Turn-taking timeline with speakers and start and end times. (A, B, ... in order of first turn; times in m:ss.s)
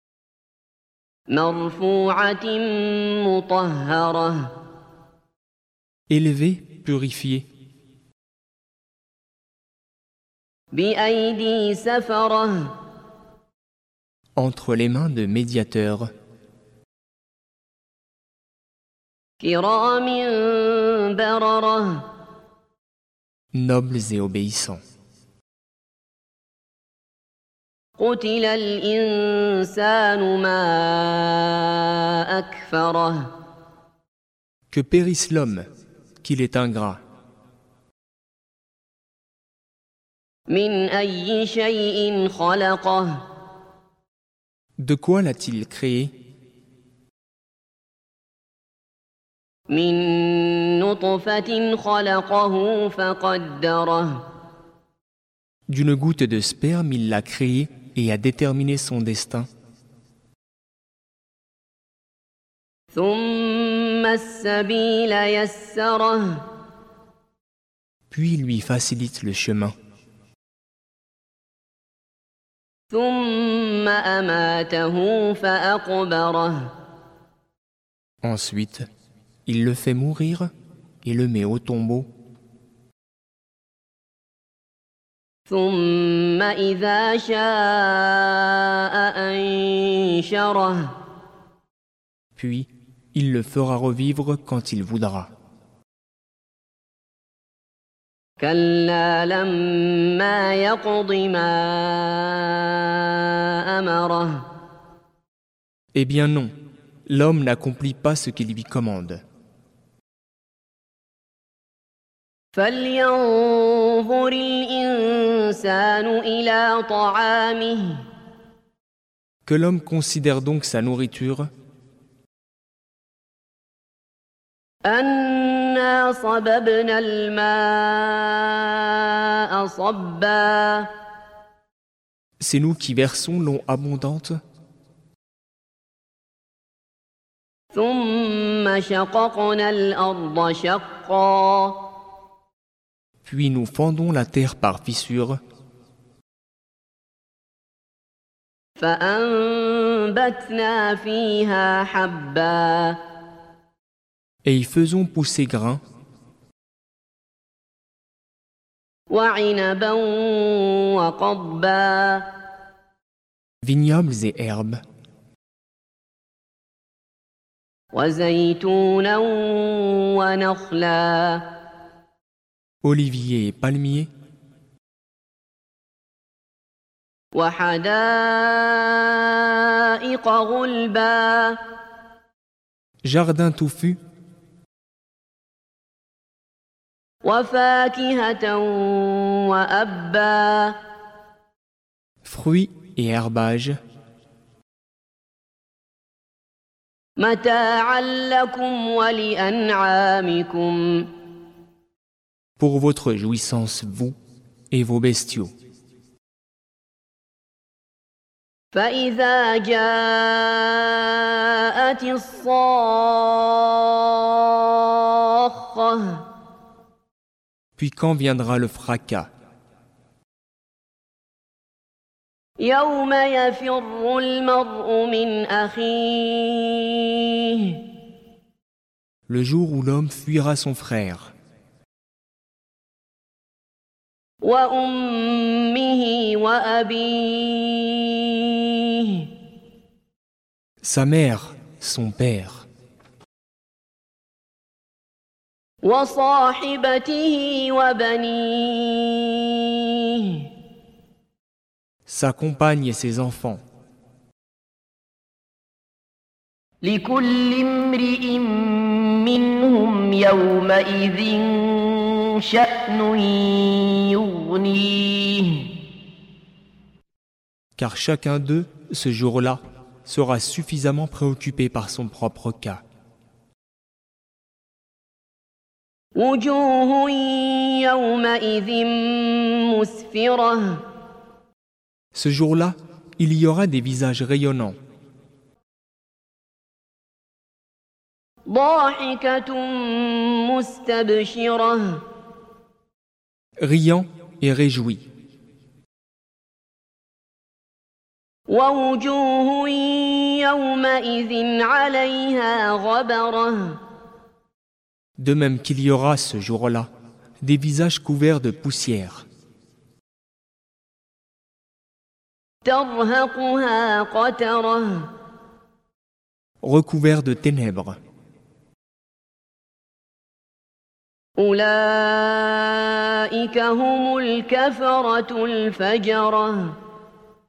0:01.3-0:04.6 A
0:06.1-0:07.5 B
0:10.7-0:12.8 A
0:14.4-0:16.1 B
0:19.4-0:22.1 A
0:23.5-0:24.8 B
0:28.0-0:33.3 A
0:34.7-0:35.6 B
0:36.2-0:37.0 B
0:40.5-0:43.2 A
0:44.8-0:46.1 B
0:49.7-0:54.3 A
0:55.7-0:59.5 B
1:02.9-1:06.5 A
1:08.1-1:09.7 B
1:12.9-1:16.7 A
1:18.2-1:18.8 B
1:19.4-1:20.5 B
1:21.0-1:22.1 B
1:25.5-1:31.0 A
1:32.4-1:35.3 B
1:38.4-1:44.5 A
1:45.9-1:46.5 B
1:47.1-1:49.2 B
1:52.5-1:58.0 A
1:59.4-2:01.5 B
2:04.8-2:10.9 A
2:12.4-2:14.4 B
2:17.7-2:21.9 A
2:23.2-2:25.4 B
2:28.8-2:33.0 A
2:34.4-2:35.8 B
2:39.1-2:42.3 A
2:43.6-2:44.8 B
2:47.9-2:51.5 A
2:52.8-2:54.1 B
2:57.3-3:01.6 A
3:03.0-3:04.0 B
3:07.2-3:10.8 A
3:12.2-3:13.8 B
3:17.2-3:21.1 A
3:22.6-3:24.1 B
3:24.7-3:25.5 B
3:28.7-3:36.3 A
3:37.8-3:39.3 B
3:42.6-3:47.8 A
3:49.3-3:51.3 B
3:54.4-3:59.3 A
4:00.8-4:02.6 B
4:05.8-4:10.5 A
4:12.0-4:13.6 B
4:16.8-4:25.8 A
4:27.8-4:32.8 B
4:36.2-4:40.8 A
4:42.1-4:44.8 B
4:48.5-4:52.0 A
4:53.6-4:55.0 B
4:58.5-5:03.8 A
5:05.2-5:06.9 B
5:07.4-5:09.2 B
5:12.6-5:15.1 A
5:16.6-5:18.0 B
5:21.4-5:26.8 A